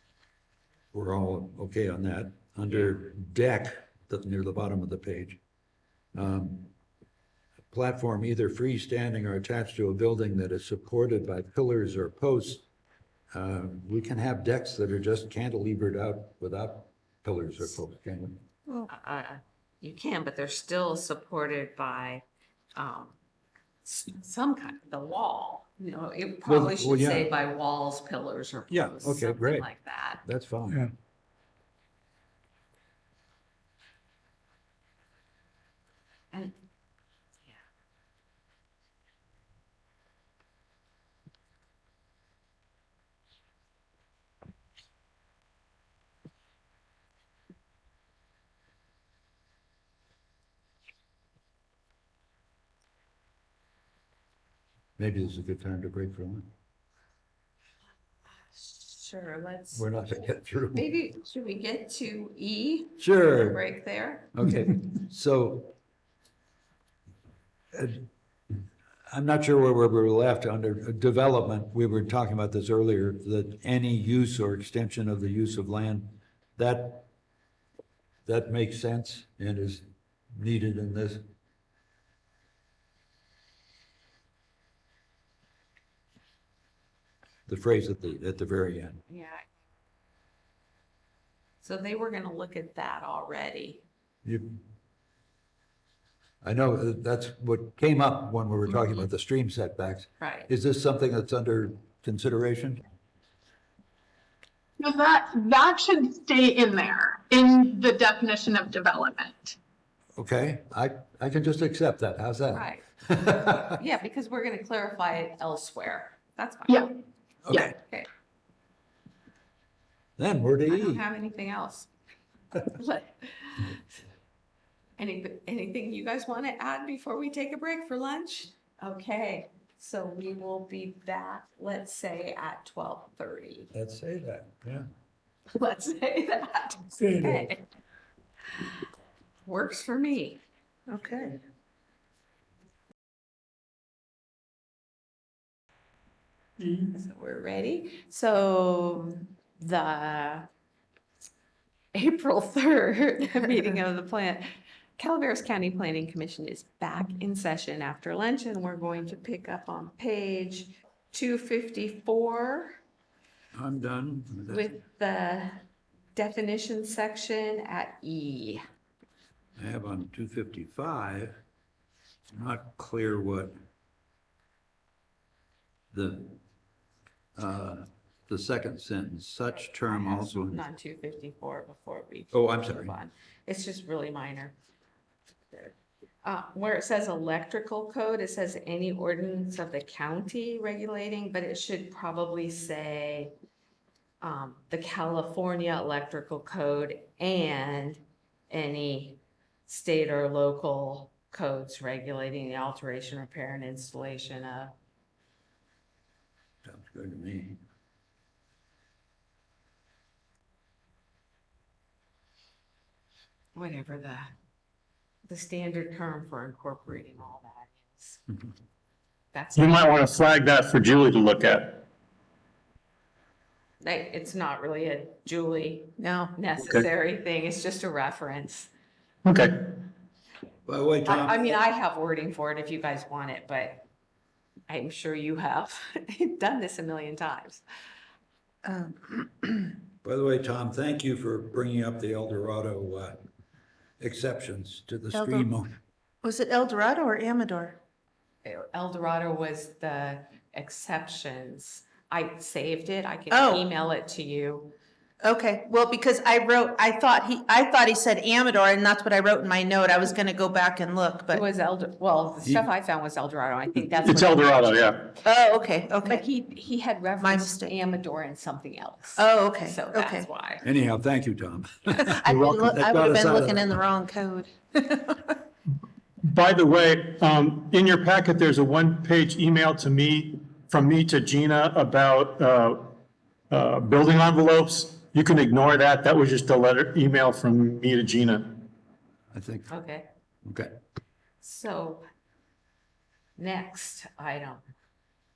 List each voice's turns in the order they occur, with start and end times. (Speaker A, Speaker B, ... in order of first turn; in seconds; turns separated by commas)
Speaker A: 0.9-5.4, Speaker A: 6.1-6.7, Speaker A: 7.7-12.6, Speaker A: 13.3-18.4, Speaker B: 18.9-22.2, Speaker B: 22.8-23.1, Speaker B: 23.8-30.2, Speaker A: 26.4-27.3, Speaker A: 28.7-29.7, Speaker A: 30.2-30.9, Speaker A: 55.0-56.5, Speaker B: 58.5-59.9, Speaker A: 59.7-60.9, Speaker B: 60.7-64.3, Speaker A: 63.0-63.6, Speaker A: 64.3-65.7, Speaker A: 67.7-68.1, Speaker A: 69.1-77.1, Speaker A: 78.2-81.2, Speaker A: 87.5-89.0, Speaker B: 89.1-89.5, Speaker B: 91.6-93.8, Speaker A: 94.2-94.6, Speaker A: 96.4-102.8, Speaker B: 100.2-100.5, Speaker C: 104.8-109.5, Speaker A: 110.2-113.8, Speaker B: 112.5-112.9, Speaker B: 113.5-117.0, Speaker A: 117.5-117.7, Speaker B: 117.5-118.1, Speaker A: 120.2-121.0, Speaker B: 120.7-121.9, Speaker B: 122.7-123.8, Speaker B: 125.0-133.7, Speaker A: 133.7-134.8, Speaker B: 135.5-137.6, Speaker D: 137.0-137.4, Speaker B: 139.4-140.4, Speaker E: 140.9-141.4, Speaker B: 146.7-150.5, Speaker B: 151.9-154.4, Speaker B: 155.0-162.8, Speaker A: 163.5-164.8, Speaker B: 164.5-165.6, Speaker B: 166.1-168.6, Speaker A: 169.6-171.4, Speaker A: 172.3-173.5, Speaker A: 175.9-176.4, Speaker A: 177.4-180.6, Speaker B: 179.8-184.5, Speaker A: 182.3-182.9, Speaker B: 186.2-193.3, Speaker B: 194.2-204.7, Speaker A: 206.6-207.6, Speaker B: 213.5-214.3, Speaker B: 215.3-218.2, Speaker B: 219.3-220.0, Speaker D: 219.6-221.7, Speaker B: 223.8-228.7, Speaker E: 226.0-226.3, Speaker D: 229.2-229.5, Speaker A: 230.7-231.5, Speaker B: 231.0-233.8, Speaker B: 234.7-237.6, Speaker E: 238.6-239.7, Speaker A: 240.0-243.2, Speaker A: 244.0-245.8, Speaker E: 245.1-245.5, Speaker E: 246.2-247.8, Speaker B: 248.4-254.7, Speaker E: 253.3-253.6, Speaker E: 255.2-261.4, Speaker B: 261.3-264.6, Speaker D: 264.0-265.1, Speaker E: 265.2-266.2, Speaker B: 266.0-270.6, Speaker E: 267.2-267.7, Speaker E: 269.1-270.3, Speaker A: 270.6-273.8, Speaker E: 272.0-275.3, Speaker D: 272.2-272.7, Speaker D: 276.2-282.8, Speaker D: 283.5-288.5, Speaker A: 289.3-289.7, Speaker B: 289.7-290.1, Speaker A: 290.4-290.7, Speaker B: 291.4-292.0, Speaker B: 293.4-294.6